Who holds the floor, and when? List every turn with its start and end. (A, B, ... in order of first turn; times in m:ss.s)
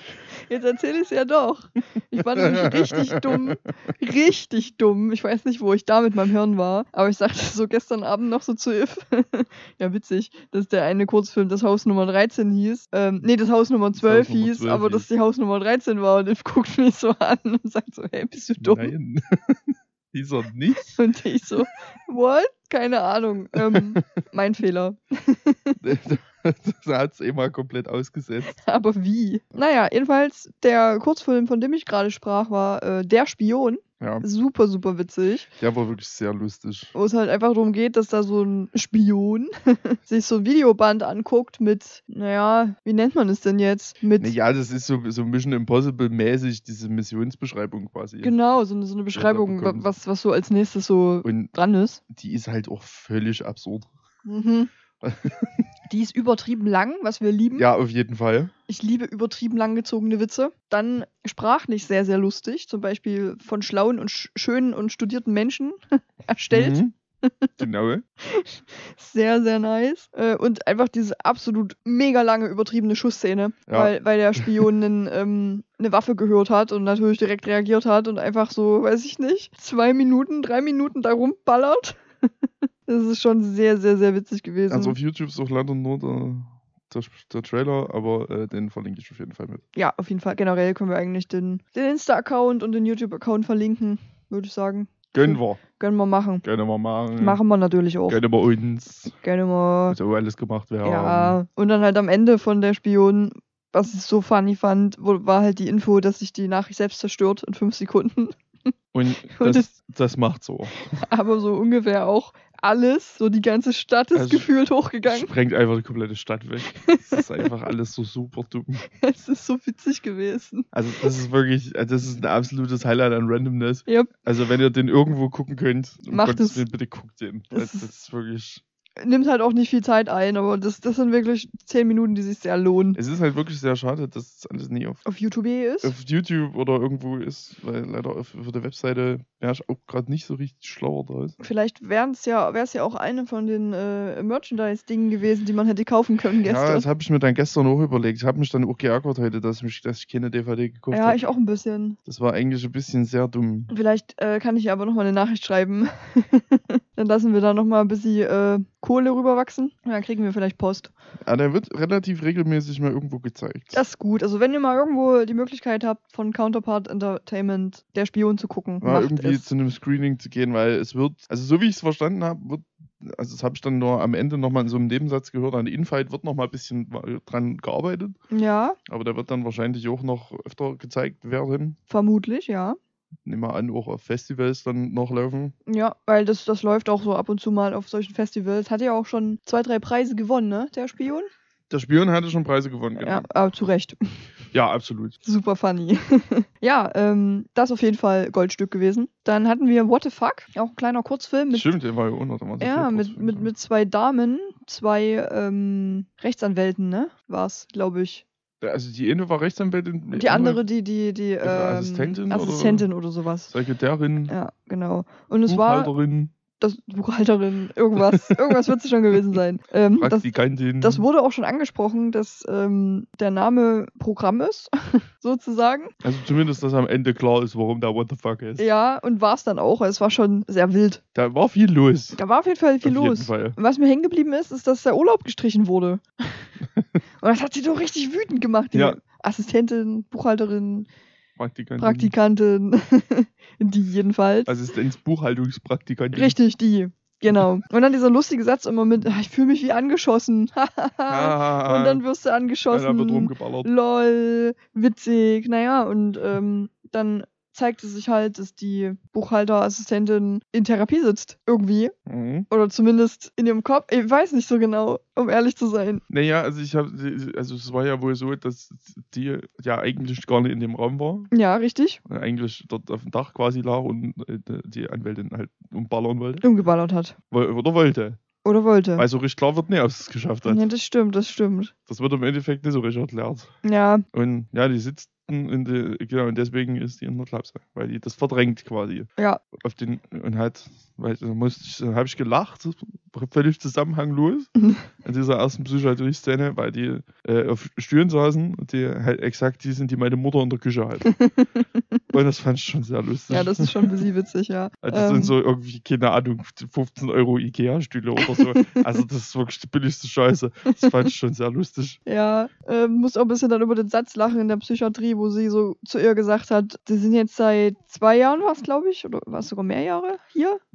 0:00.5-0:18.9 A
0:02.2-0:03.6 B
0:14.0-0:15.1 B
0:18.6-0:21.0 B
0:20.9-0:25.8 A
0:23.6-0:24.0 B
0:25.8-0:28.6 B
0:28.5-0:35.5 A
0:35.6-0:36.9 B
0:36.9-0:44.3 A
0:44.2-0:48.3 B
0:48.2-0:52.0 A
0:49.1-0:49.9 B
0:51.2-0:51.5 B
0:52.1-0:53.9 B
0:54.2-0:54.7 A
0:55.0-0:55.6 B
0:55.9-0:57.6 A
0:57.6-0:58.5 B
0:58.7-1:07.5 A
1:06.5-1:06.9 B
1:07.6-1:08.0 B
1:08.2-1:22.0 A
1:13.7-1:14.7 B
1:22.9-1:25.0 A
1:24.7-1:29.6 B
1:29.7-1:36.4 A
1:35.1-1:35.6 B
1:36.4-1:37.4 B
1:37.2-1:38.2 A
1:38.1-1:39.1 B
1:39.2-1:40.0 A
1:39.9-1:41.4 B
1:40.8-1:48.4 A
1:48.9-1:51.0 B
1:49.2-1:49.7 A
1:50.9-1:55.3 A
1:54.1-1:54.5 B
1:55.0-1:58.8 B
1:56.8-1:57.4 A
1:59.0-2:01.1 A
2:00.7-2:08.6 B
2:03.8-2:04.1 A
2:06.1-2:06.6 A
2:07.5-2:07.9 A
2:09.0-2:13.0 A
2:13.0-2:15.0 B
2:15.0-2:15.9 A
2:15.8-2:21.3 B
2:21.4-2:26.8 A
2:26.4-2:31.2 B
2:30.9-2:32.0 A
2:32.0-2:33.7 B
2:33.7-2:40.9 A
2:41.2-2:43.8 B
2:43.7-2:49.4 A
2:48.8-2:58.2 B
2:58.3-2:58.8 A
2:58.9-3:01.8 B
3:01.9-3:02.8 A
3:03.2-3:05.5 B
3:05.7-3:11.3 A
3:11.7-3:13.2 B
3:13.0-3:14.2 A
3:14.5-3:15.2 B
3:15.2-3:21.7 A
3:21.5-3:23.5 B
3:22.6-3:28.2 A
3:28.6-3:30.6 B
3:30.1-3:33.5 A
3:31.4-3:32.9 B
3:33.5-3:34.3 B
3:34.3-3:35.9 A
3:35.5-3:36.3 B
3:36.6-3:45.9 A
3:38.0-3:38.7 B
3:40.0-3:41.0 B
3:46.0-3:48.6 B
3:48.6-3:51.0 A
3:51.1-3:52.2 B
3:52.2-3:56.4 A
3:52.8-3:53.6 B
3:57.2-4:00.9 A
3:58.7-3:59.0 B
4:01.4-4:02.1 B
4:01.8-4:04.6 A
4:04.5-4:06.4 B
4:06.1-4:21.9 A
4:11.1-4:12.0 B
4:12.7-4:13.7 B
4:22.1-4:22.5 B
4:22.5-4:26.0 A
4:26.1-4:31.3 B
4:31.3-4:32.0 A
4:32.0-4:36.4 B
4:36.4-4:37.1 A
4:37.3-4:38.2 B
4:38.4-4:39.0 A
4:39.0-4:40.7 B
4:40.4-4:41.7 A
4:41.9-4:43.5 B
4:43.6-4:44.0 A
4:44.1-5:01.1 B
4:49.2-4:49.4 A
4:54.6-4:54.8 A
5:01.0-5:02.0 A
5:02.1-5:03.9 B
5:03.3-5:05.3 A
5:04.8-5:12.0 B
5:08.2-5:08.8 A
5:12.0-5:20.6 A